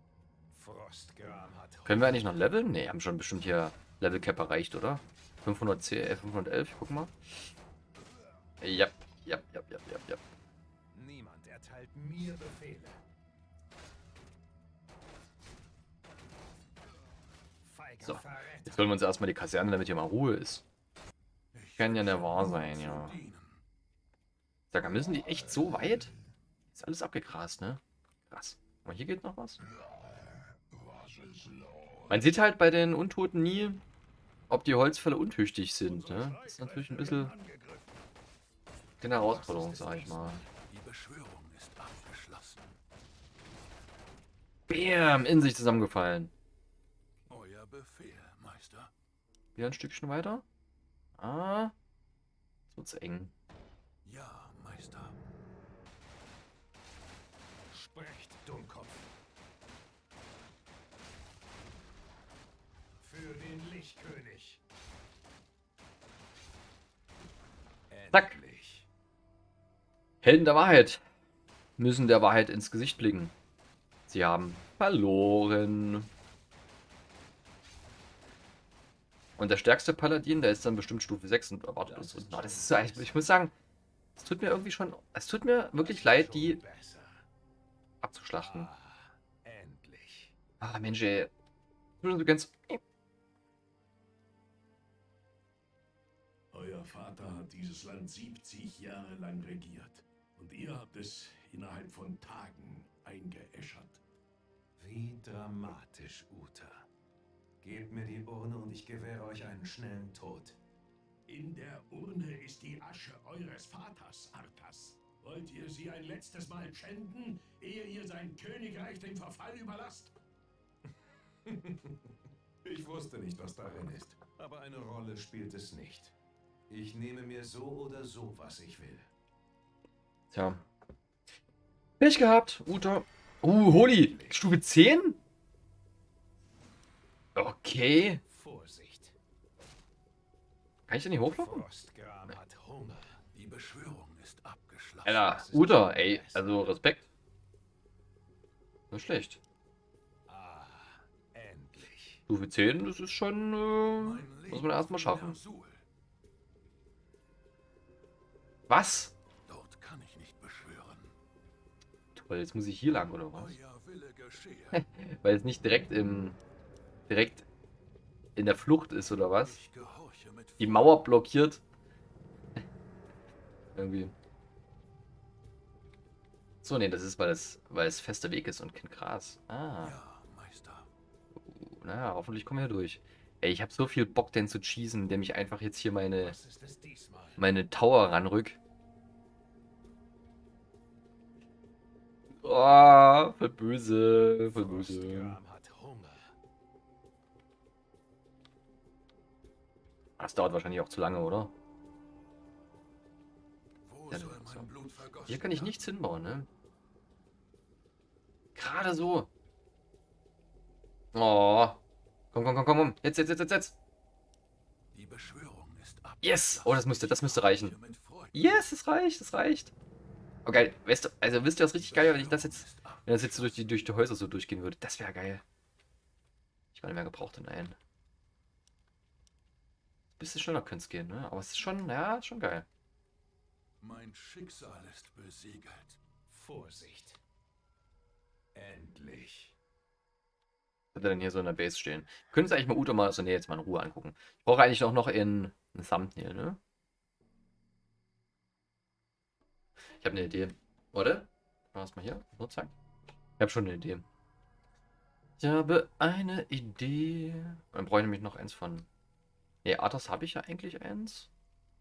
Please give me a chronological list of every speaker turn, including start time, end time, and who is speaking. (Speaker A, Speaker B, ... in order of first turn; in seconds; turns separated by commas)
Speaker A: 0.5-2.4, Speaker B: 1.9-7.1, Speaker B: 8.6-10.2, Speaker A: 10.9-13.0, Speaker A: 17.6-19.0, Speaker B: 18.0-20.6, Speaker C: 21.5-23.6, Speaker B: 21.8-23.2, Speaker B: 24.7-26.1, Speaker B: 26.7-29.6, Speaker D: 30.7-32.2, Speaker B: 32.1-33.8, Speaker B: 34.5-37.3, Speaker D: 35.9-37.9, Speaker B: 39.0-40.4, Speaker A: 39.1-40.5, Speaker C: 40.7-42.8, Speaker B: 44.7-46.3, Speaker C: 47.3-48.9, Speaker B: 49.5-50.4, Speaker B: 51.2-51.7, Speaker B: 52.7-53.3, Speaker C: 54.0-55.1, Speaker A: 57.7-59.1, Speaker A: 63.0-64.6, Speaker A: 67.9-68.9, Speaker B: 70.2-71.0, Speaker B: 71.8-73.3, Speaker B: 74.1-76.1, Speaker B: 79.4-83.5, Speaker A: 81.8-83.3, Speaker B: 84.2-86.6, Speaker A: 85.7-87.2, Speaker B: 88.0-88.7, Speaker A: 88.4-90.3, Speaker B: 90.6-91.3, Speaker B: 92.0-92.8, Speaker D: 96.5-104.0, Speaker A: 104.8-106.9, Speaker A: 107.6-110.6, Speaker D: 111.3-120.1, Speaker A: 121.4-126.1, Speaker A: 126.7-129.1, Speaker B: 130.3-130.6, Speaker B: 132.0-135.2, Speaker A: 133.7-134.5, Speaker B: 137.3-138.2, Speaker A: 138.2-139.2, Speaker B: 140.9-141.6, Speaker A: 141.3-143.2, Speaker C: 143.3-145.3, Speaker B: 145.0-147.1, Speaker A: 145.2-146.8, Speaker B: 148.9-149.4, Speaker A: 150.3-152.2, Speaker B: 152.3-155.4, Speaker C: 154.0-155.8, Speaker B: 158.7-159.1, Speaker C: 159.4-161.1, Speaker B: 162.1-163.6, Speaker C: 163.3-164.9, Speaker B: 164.7-166.4, Speaker B: 167.1-167.4, Speaker B: 168.3-169.6, Speaker C: 169.4-171.0, Speaker B: 170.6-171.6, Speaker B: 173.7-174.1, Speaker B: 176.6-179.9, Speaker C: 179.8-180.9, Speaker B: 181.4-186.3, Speaker A: 186.2-187.4, Speaker B: 187.4-188.6, Speaker B: 192.4-195.3, Speaker A: 194.5-196.3, Speaker B: 200.2-201.5, Speaker C: 203.8-205.9, Speaker B: 204.1-204.7, Speaker B: 205.2-206.5, Speaker B: 208.5-209.3, Speaker B: 211.1-211.8, Speaker B: 212.3-213.7, Speaker C: 214.9-218.4, Speaker B: 216.2-217.7, Speaker B: 218.3-219.7, Speaker B: 220.4-225.4, Speaker C: 221.7-223.9, Speaker B: 226.7-227.8, Speaker B: 230.2-232.7, Speaker C: 233.8-236.0, Speaker A: 236.3-237.2, Speaker A: 238.5-239.6, Speaker B: 240.9-246.6, Speaker B: 250.0-252.7, Speaker B: 253.4-254.0, Speaker B: 255.4-258.9, Speaker B: 259.6-261.3